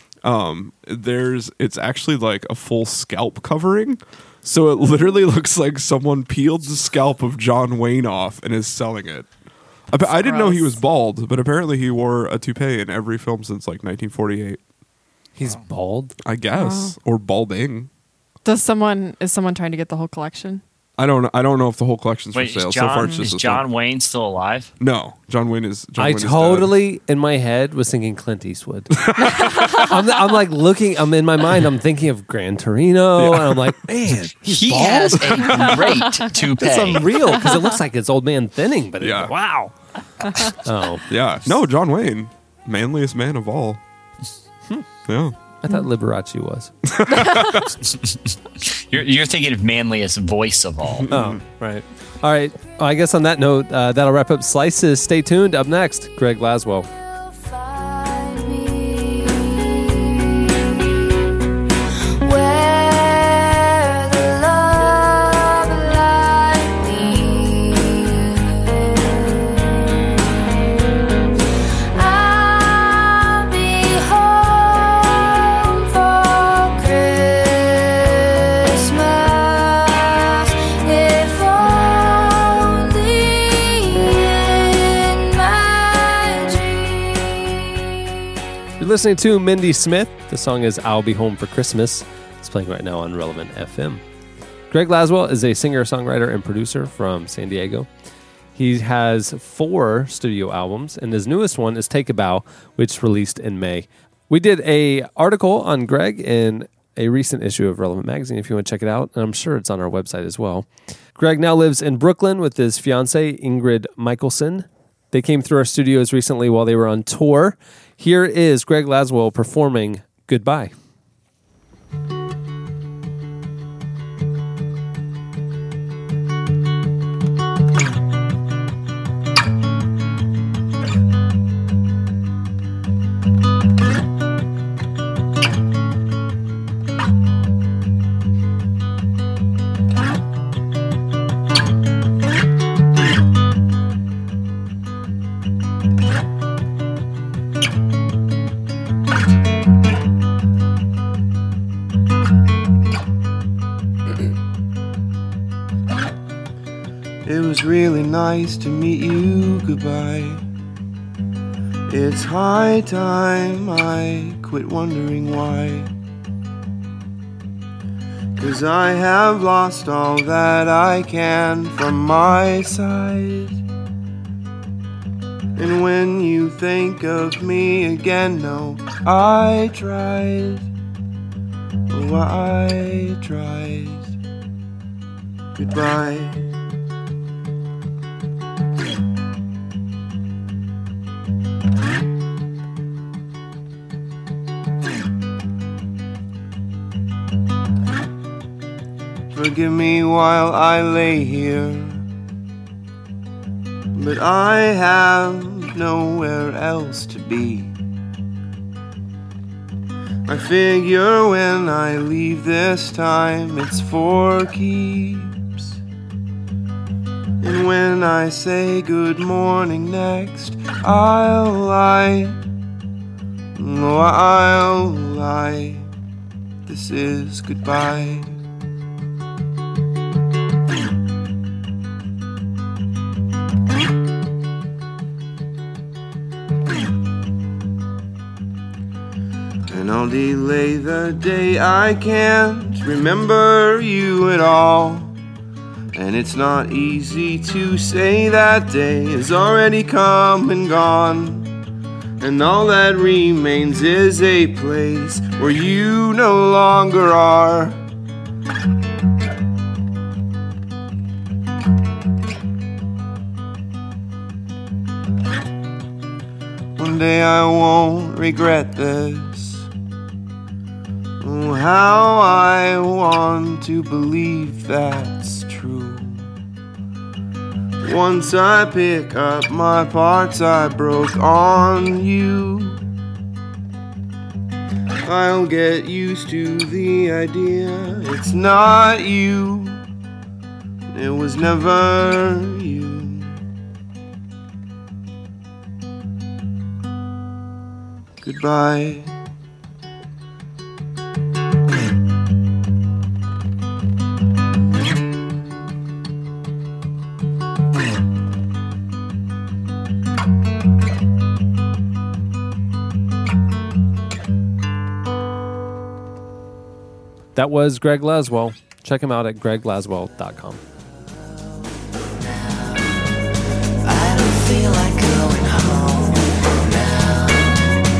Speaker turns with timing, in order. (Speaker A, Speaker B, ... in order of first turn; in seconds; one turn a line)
Speaker A: 0.2-9.3
Speaker B: 4.8-5.2
Speaker A: 9.9-14.6
Speaker B: 10.0-10.8
Speaker C: 15.4-16.2
Speaker A: 16.2-17.9
Speaker B: 16.5-17.0
Speaker B: 18.4-20.6
Speaker A: 21.0-23.7
Speaker D: 22.3-24.7
Speaker B: 23.0-23.2
Speaker A: 24.8-26.8
Speaker C: 26.0-29.1
Speaker A: 29.0-29.9
Speaker B: 29.3-29.8
Speaker C: 29.8-35.6
Speaker A: 33.2-33.8
Speaker D: 34.5-37.1
Speaker A: 35.2-35.8
Speaker B: 36.0-36.3
Speaker C: 36.6-39.7
Speaker B: 37.4-37.8
Speaker A: 39.0-39.4
Speaker C: 40.5-41.0
Speaker A: 41.1-43.8
Speaker A: 45.1-45.4
Speaker C: 45.6-46.7
Speaker A: 46.9-47.7
Speaker B: 47.1-47.7
Speaker D: 47.9-51.1
Speaker A: 50.9-51.4
Speaker C: 51.1-56.9
Speaker E: 57.2-59.7
Speaker E: 62.2-68.3
Speaker E: 71.9-87.4
Speaker C: 88.8-94.0
Speaker C: 94.7-97.9
Speaker C: 98.5-120.7
Speaker F: 157.2-160.4
Speaker F: 161.9-165.9
Speaker F: 168.4-173.6
Speaker F: 175.6-180.7
Speaker F: 181.9-184.1
Speaker F: 185.6-186.5
Speaker F: 199.3-202.0
Speaker F: 203.9-207.7
Speaker F: 210.3-215.8
Speaker F: 217.4-222.4
Speaker F: 223.6-225.9
Speaker F: 226.7-228.3
Speaker F: 239.7-245.2
Speaker F: 245.9-251.5
Speaker F: 252.2-257.8
Speaker F: 266.8-269.7
Speaker F: 271.2-276.3
Speaker F: 277.8-282.8
Speaker F: 285.0-289.8
Speaker F: 290.9-293.4
Speaker F: 298.2-299.1
Speaker C: 317.4-320.6
Speaker G: 322.4-322.8
Speaker G: 323.8-327.7